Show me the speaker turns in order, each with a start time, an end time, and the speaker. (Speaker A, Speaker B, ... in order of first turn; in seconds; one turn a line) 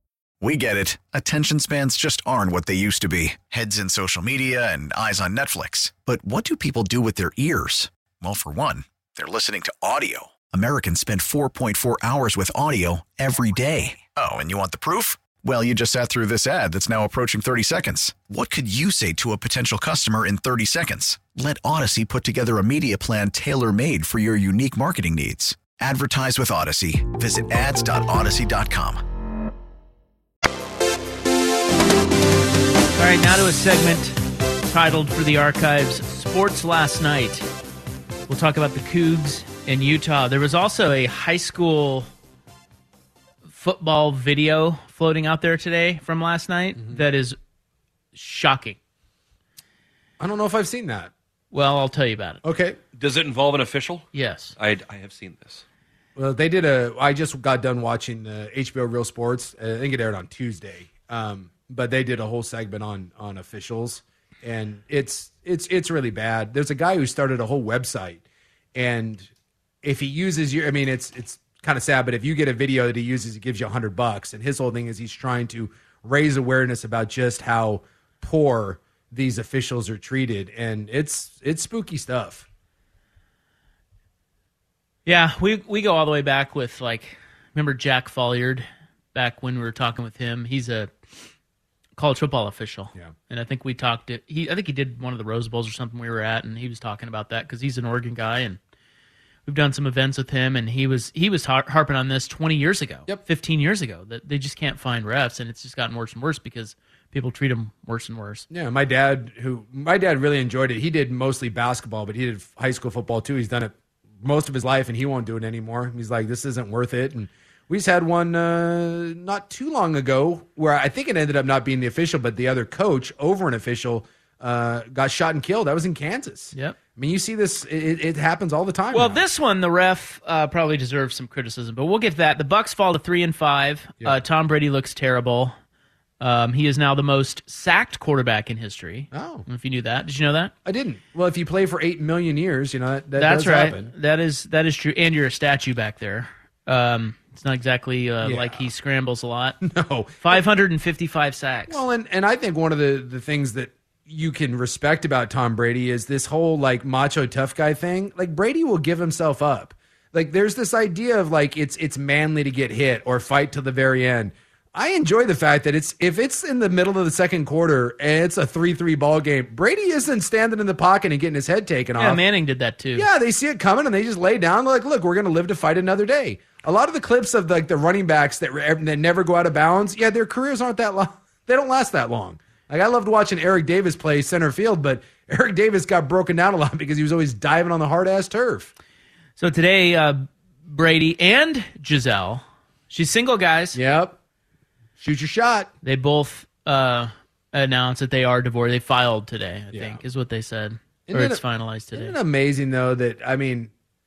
Speaker A: 0.4-29.0
Speaker B: 33.0-34.1
Speaker B: 34.7-37.5
Speaker B: 38.3-42.1
Speaker B: 43.5-47.4
Speaker B: 48.1-48.8
Speaker C: 50.2-51.1
Speaker B: 51.5-52.4
Speaker C: 52.4-52.8
Speaker D: 53.0-54.0
Speaker B: 54.1-54.5
Speaker D: 54.6-55.6
Speaker C: 56.1-68.2
Speaker C: 68.7-69.3
Speaker C: 69.8-82.4
Speaker B: 85.0-90.9
Speaker B: 92.0-98.6
Speaker B: 99.5-108.5
Speaker C: 108.5-129.2
Speaker B: 128.9-135.6
Speaker B: 136.2-140.5
Speaker C: 139.1-139.4
Speaker C: 140.6-143.9
Speaker B: 143.2-149.6
Speaker C: 148.2-148.7
Speaker C: 149.6-150.4
Speaker B: 150.2-151.8
Speaker C: 151.7-172.2
Speaker B: 171.9-173.1
Speaker C: 172.9-188.7
Speaker B: 189.4-193.8
Speaker C: 193.7-194.2
Speaker C: 195.0-195.7
Speaker B: 195.8-202.2
Speaker C: 199.7-200.0
Speaker C: 201.1-201.4
Speaker C: 201.9-203.7